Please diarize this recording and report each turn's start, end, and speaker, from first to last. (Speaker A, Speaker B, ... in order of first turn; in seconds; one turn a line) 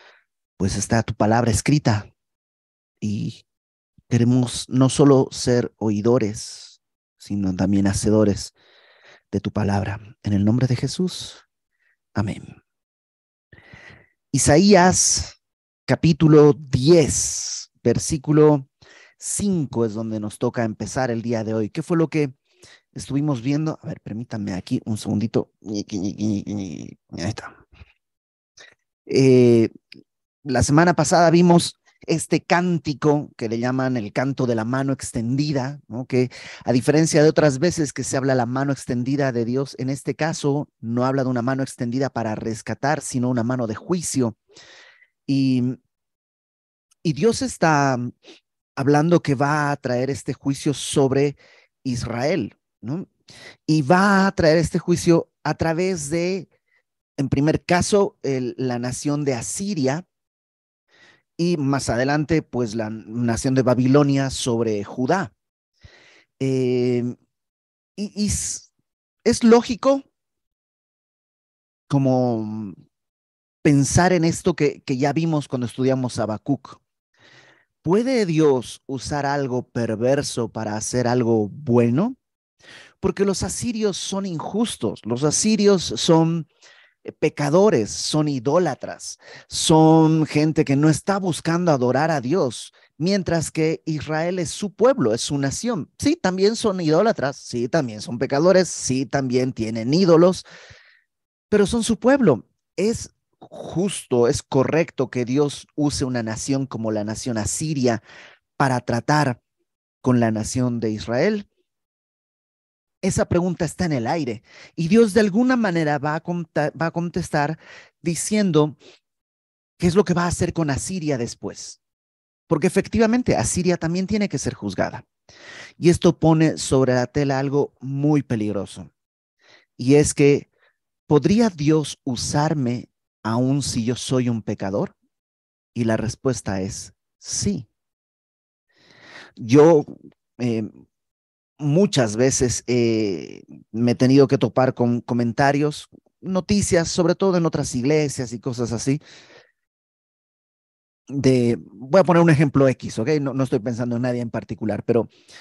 Speaker A: 0.6-2.1
Speaker A: 3.0-3.4
Speaker A: 4.1-8.5
Speaker A: 9.3-11.4
Speaker A: 12.1-12.6
Speaker A: 14.3-15.4
Speaker A: 15.9-18.7
Speaker A: 19.2-22.3
Speaker A: 22.9-27.6
Speaker A: 29.1-29.7
Speaker A: 30.4-44.4
Speaker A: 45.3-45.8
Speaker A: 47.0-48.1
Speaker A: 48.8-53.1
Speaker A: 53.7-56.5
Speaker A: 57.2-60.0
Speaker A: 61.4-65.3
Speaker A: 66.4-67.1
Speaker A: 68.0-68.7
Speaker A: 69.2-70.1
Speaker A: 71.9-72.8
Speaker A: 73.6-76.8
Speaker A: 77.8-82.2
Speaker A: 83.0-86.5
Speaker A: 87.1-100.4
Speaker A: 101.5-108.0
Speaker A: 108.6-109.4
Speaker A: 110.0-111.5
Speaker A: 113.0-118.8
Speaker A: 119.8-121.8
Speaker A: 122.5-125.0
Speaker A: 125.8-128.9
Speaker A: 129.8-130.5
Speaker A: 131.1-134.9
Speaker A: 135.8-137.7
Speaker A: 139.4-140.7
Speaker A: 141.6-149.0
Speaker A: 151.1-155.1